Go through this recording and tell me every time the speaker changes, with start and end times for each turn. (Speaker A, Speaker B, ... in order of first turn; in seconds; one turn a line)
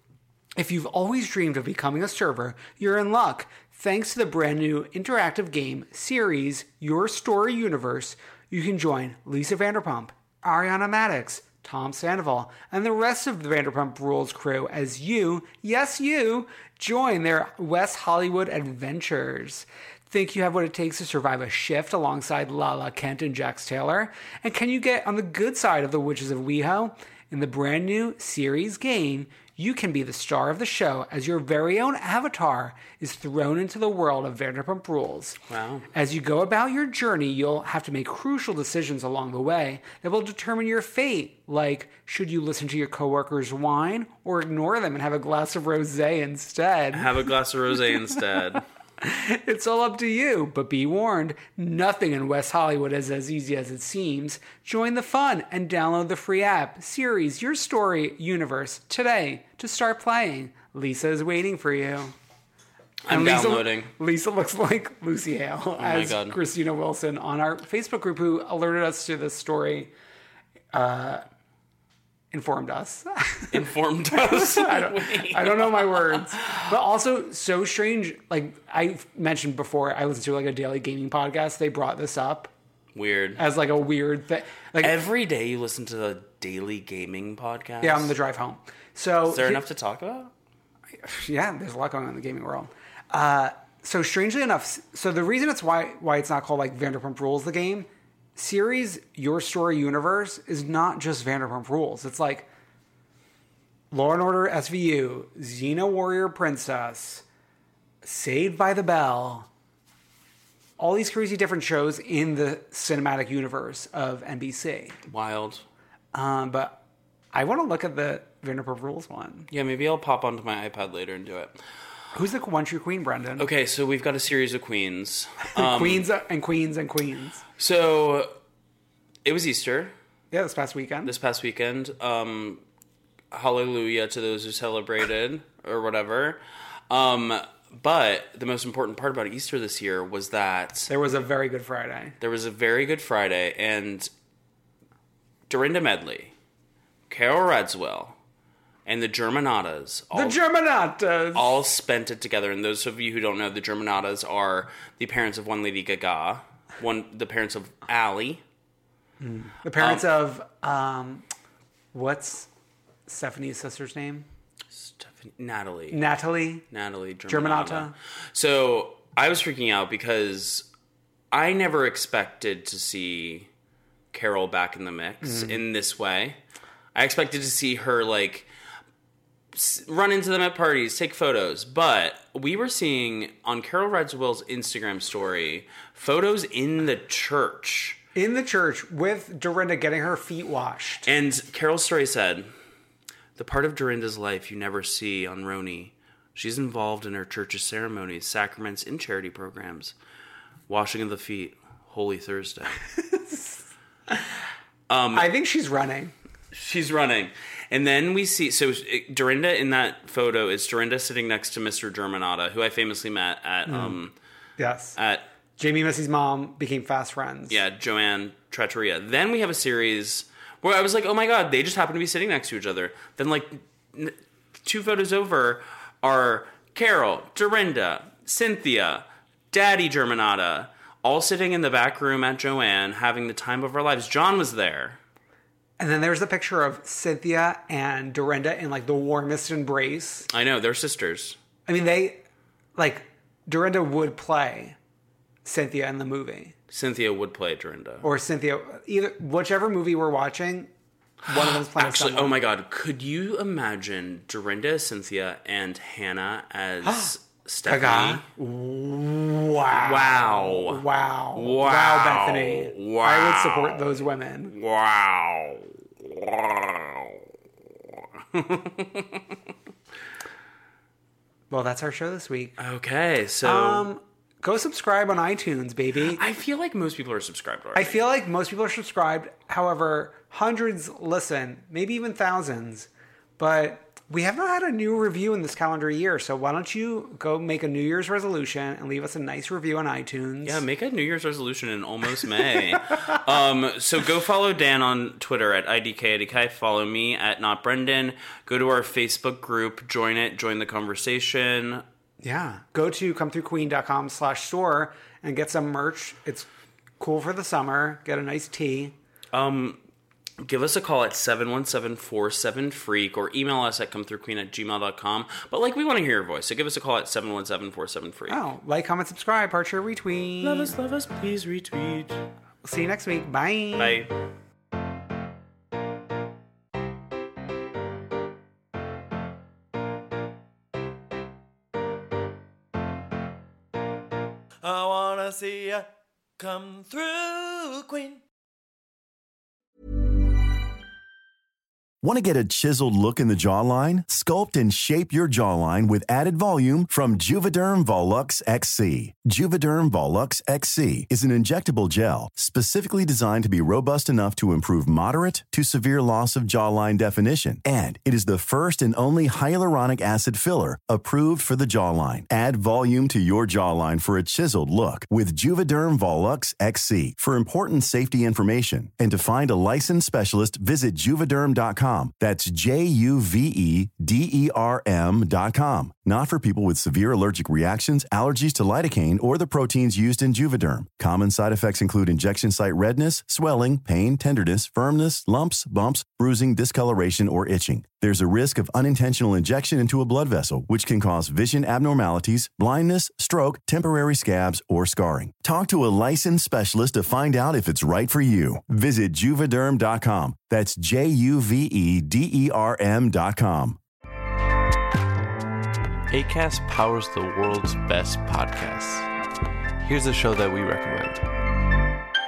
Speaker A: 0.6-35.4
Speaker B: 35.5-35.9
Speaker A: 35.9-47.1
Speaker B: 46.9-48.6
Speaker A: 49.0-62.1
Speaker B: 63.0-63.9
Speaker A: 63.1-69.9
Speaker B: 65.8-66.4
Speaker A: 70.7-71.2
Speaker A: 72.3-82.5
Speaker B: 73.5-76.7
Speaker B: 83.0-83.4
Speaker A: 83.4-85.0
Speaker B: 84.8-88.1
Speaker A: 87.8-89.6
Speaker B: 89.3-90.3
Speaker A: 91.0-102.5
Speaker A: 103.9-107.2
Speaker A: 108.0-109.5
Speaker A: 110.8-115.0
Speaker B: 115.1-115.6
Speaker A: 116.1-116.8
Speaker A: 117.3-119.5
Speaker B: 119.5-121.6
Speaker A: 122.1-123.5
Speaker B: 123.4-126.1
Speaker A: 125.5-127.4
Speaker B: 127.6-128.3
Speaker B: 129.2-129.9
Speaker A: 130.3-131.1
Speaker B: 131.1-132.6
Speaker B: 133.3-140.9
Speaker A: 140.9-142.2
Speaker B: 142.2-144.1
Speaker B: 145.5-146.3
Speaker B: 147.1-148.2
Speaker B: 148.9-150.4
Speaker A: 150.1-151.6
Speaker B: 151.3-158.4
Speaker A: 159.2-161.2
Speaker B: 159.8-160.1
Speaker A: 161.9-162.5
Speaker A: 163.1-164.3
Speaker B: 164.7-166.0
Speaker A: 165.9-166.7
Speaker B: 166.7-170.7
Speaker A: 167.3-167.9
Speaker B: 171.3-173.5
Speaker B: 174.1-176.4
Speaker A: 175.2-175.6
Speaker B: 176.9-178.5
Speaker B: 179.5-188.0
Speaker A: 188.2-191.1
Speaker B: 191.1-192.5
Speaker B: 193.4-199.9
Speaker B: 200.7-202.8
Speaker A: 203.1-203.6
Speaker B: 204.9-205.3
Speaker A: 205.1-206.1
Speaker B: 206.5-214.1
Speaker A: 213.7-214.0
Speaker A: 214.6-215.0
Speaker B: 215.0-215.2
Speaker A: 215.6-217.6
Speaker B: 217.5-235.0
Speaker A: 235.8-240.3
Speaker B: 240.3-241.4
Speaker A: 241.7-242.2
Speaker A: 242.8-244.8
Speaker A: 245.4-246.6
Speaker B: 246.7-248.1
Speaker A: 248.0-250.7
Speaker A: 251.3-252.3
Speaker B: 251.3-258.3
Speaker A: 256.8-257.1
Speaker A: 257.6-264.6
Speaker B: 259.8-260.8
Speaker B: 261.3-263.9
Speaker B: 264.5-267.2
Speaker B: 268.3-269.2
Speaker A: 271.5-272.6
Speaker B: 272.6-273.9
Speaker A: 273.4-276.2
Speaker B: 276.1-278.0
Speaker A: 277.8-290.6
Speaker B: 290.4-301.8
Speaker A: 302.2-306.5
Speaker A: 307.0-308.9
Speaker B: 309.3-309.8
Speaker B: 310.4-318.4
Speaker A: 318.3-320.7
Speaker B: 320.4-322.2
Speaker A: 322.6-324.1
Speaker B: 323.8-324.1
Speaker C: 334.6-335.9
Speaker C: 336.4-338.2
Speaker D: 342.0-403.8
Speaker E: 406.1-409.1
Speaker E: 409.8-411.2